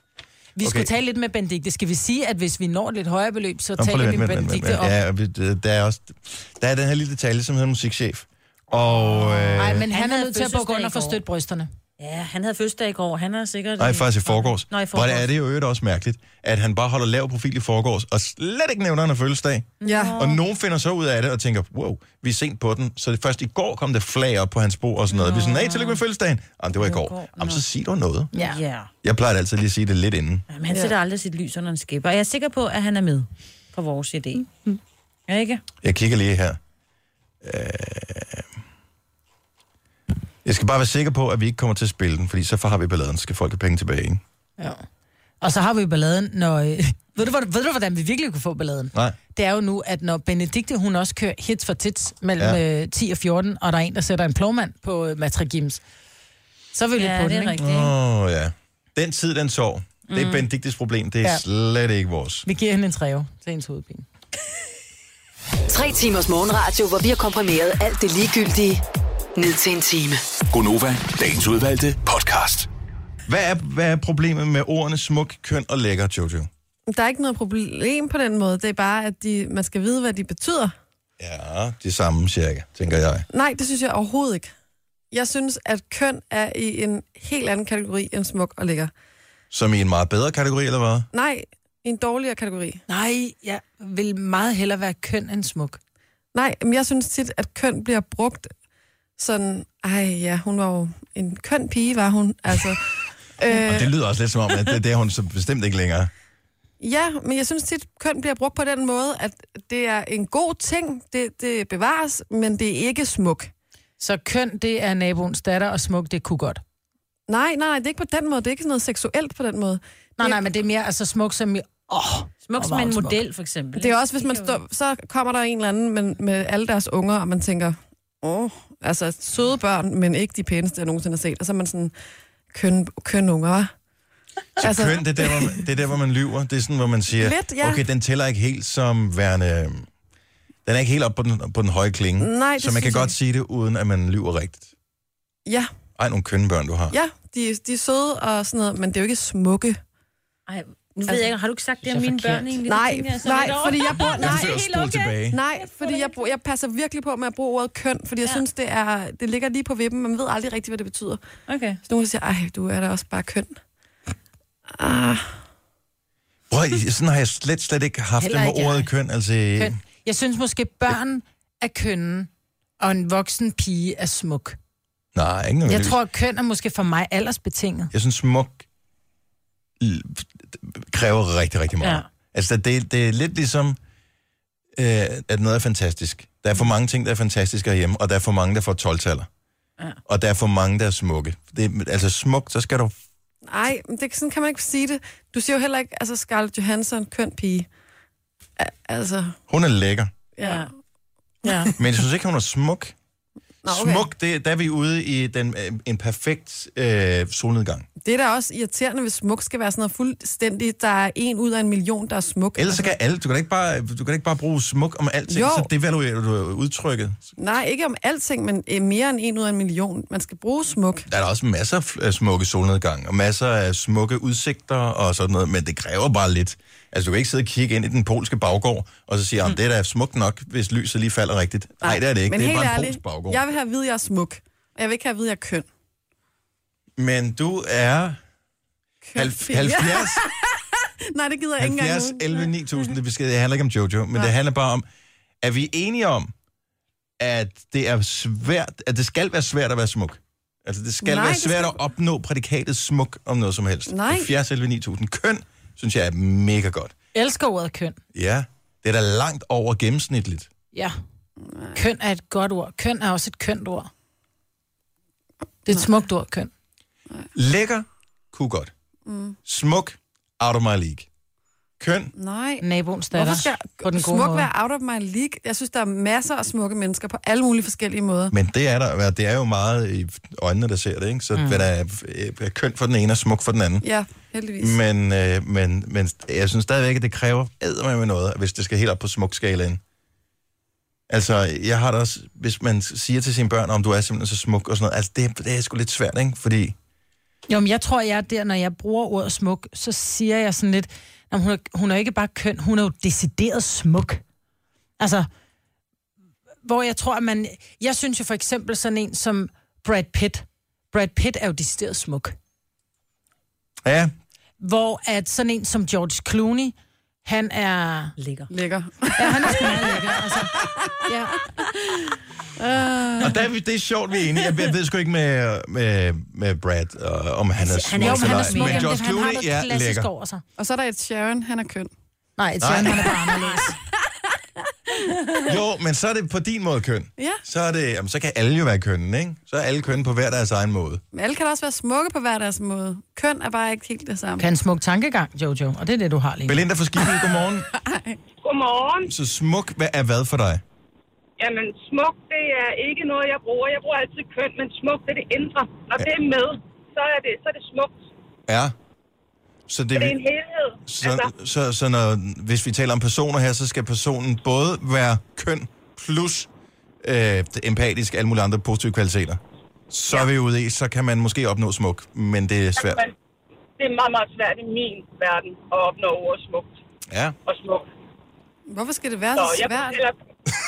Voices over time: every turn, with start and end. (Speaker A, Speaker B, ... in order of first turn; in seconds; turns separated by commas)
Speaker A: 0.6-5.0, Speaker B: 0.6-0.9, Speaker B: 3.8-9.8, Speaker A: 9.1-11.7, Speaker C: 9.6-11.2, Speaker C: 12.0-15.3, Speaker B: 13.8-28.3, Speaker C: 19.8-20.4, Speaker D: 19.8-20.2, Speaker C: 25.1-26.0, Speaker C: 26.8-27.6, Speaker A: 28.3-28.6, Speaker C: 28.3-28.9, Speaker B: 29.0-30.4, Speaker C: 30.5-34.7, Speaker D: 30.7-30.9, Speaker C: 35.3-35.6, Speaker B: 35.8-36.6, Speaker B: 37.4-38.5, Speaker B: 40.4-44.2, Speaker A: 44.6-44.8, Speaker A: 45.4-55.8, Speaker A: 56.7-57.6, Speaker C: 57.0-57.9, Speaker B: 57.6-62.5, Speaker C: 60.1-60.4, Speaker A: 62.4-64.0, Speaker E: 65.7-68.8, Speaker E: 69.3-70.2, Speaker F: 70.5-72.7, Speaker B: 73.3-76.5, Speaker D: 76.9-80.8, Speaker B: 81.2-83.2, Speaker D: 83.3-84.5, Speaker D: 85.1-88.9, Speaker B: 89.5-91.1, Speaker D: 91.1-92.8, Speaker A: 92.9-95.8, Speaker D: 96.3-98.5, Speaker D: 99.2-103.9, Speaker B: 103.5-106.1, Speaker D: 106.8-113.5, Speaker A: 114.0-116.6, Speaker D: 117.3-120.4, Speaker A: 120.2-123.2, Speaker C: 122.5-124.6, Speaker D: 123.7-131.9, Speaker D: 132.5-133.7, Speaker B: 134.6-139.9, Speaker D: 134.6-135.6, Speaker D: 137.1-137.8, Speaker B: 140.6-144.7, Speaker D: 142.2-143.1, Speaker D: 145.4-145.7, Speaker B: 146.0-146.9, Speaker D: 146.9-149.8, Speaker C: 150.5-156.3, Speaker D: 152.6-154.6, Speaker B: 153.9-155.4, Speaker D: 155.3-161.2, Speaker C: 161.5-161.8, Speaker D: 161.8-163.6, Speaker D: 164.7-165.4, Speaker B: 166.5-169.8, Speaker A: 168.2-168.9, Speaker A: 169.6-172.3, Speaker A: 172.8-174.6, Speaker B: 175.1-176.0, Speaker A: 175.7-177.9, Speaker B: 177.9-178.6, Speaker B: 179.8-183.8, Speaker B: 184.8-189.3, Speaker B: 190.1-192.9, Speaker D: 193.5-197.7, Speaker D: 198.6-199.4, Speaker B: 199.5-200.1, Speaker D: 200.3-200.7, Speaker C: 200.4-200.7, Speaker B: 201.8-202.9, Speaker D: 203.6-204.1, Speaker B: 203.7-207.9, Speaker D: 208.0-212.9, Speaker B: 212.6-217.3, Speaker D: 215.3-215.7, Speaker D: 217.4-221.1, Speaker B: 221.1-233.4, Speaker D: 231.8-235.7, Speaker B: 237.0-238.2, Speaker D: 239.0-242.5, Speaker B: 239.1-240.2, Speaker B: 241.6-244.8, Speaker B: 245.4-246.3, Speaker B: 247.2-256.9, Speaker D: 251.0-251.8, Speaker D: 253.9-254.3, Speaker A: 257.1-258.0, Speaker B: 258.1-260.5, Speaker D: 261.4-261.8, Speaker A: 261.7-263.9, Speaker A: 265.6-266.5, Speaker B: 267.3-268.7, Speaker D: 269.1-269.4, Speaker B: 269.4-271.1, Speaker B: 271.8-272.1, Speaker D: 272.1-278.3, Speaker A: 272.6-274.5, Speaker B: 278.3-283.9, Speaker A: 281.4-281.6, Speaker D: 283.8-284.8, Speaker B: 284.6-289.8, Speaker B: 291.1-296.7, Speaker A: 297.5-304.2, Speaker A: 305.0-305.3, Speaker A: 306.6-312.3, Speaker B: 313.8-314.1, Speaker A: 314.6-318.1, Speaker C: 318.2-318.5, Speaker D: 318.5-323.4, Speaker A: 319.2-321.5, Speaker B: 323.2-330.1, Speaker A: 327.6-330.4, Speaker C: 327.9-328.9, Speaker D: 330.6-331.9, Speaker A: 332.4-333.8, Speaker B: 332.6-333.1, Speaker D: 333.1-335.3, Speaker B: 335.4-341.0, Speaker D: 337.2-337.4, Speaker D: 341.1-344.5, Speaker A: 344.4-346.6, Speaker B: 346.5-347.7, Speaker D: 347.2-348.2, Speaker G: 348.4-349.1, Speaker B: 349.1-350.6, Speaker G: 351.4-358.0, Speaker B: 358.5-358.7, Speaker B: 359.7-360.2, Speaker G: 359.9-361.3, Speaker B: 360.9-366.5, Speaker B: 367.0-369.4, Speaker B: 369.9-373.0, Speaker G: 372.8-373.1, Speaker G: 373.8-376.7, Speaker B: 377.1-377.4, Speaker G: 377.4-377.9, Speaker D: 378.7-380.0, Speaker G: 379.3-380.1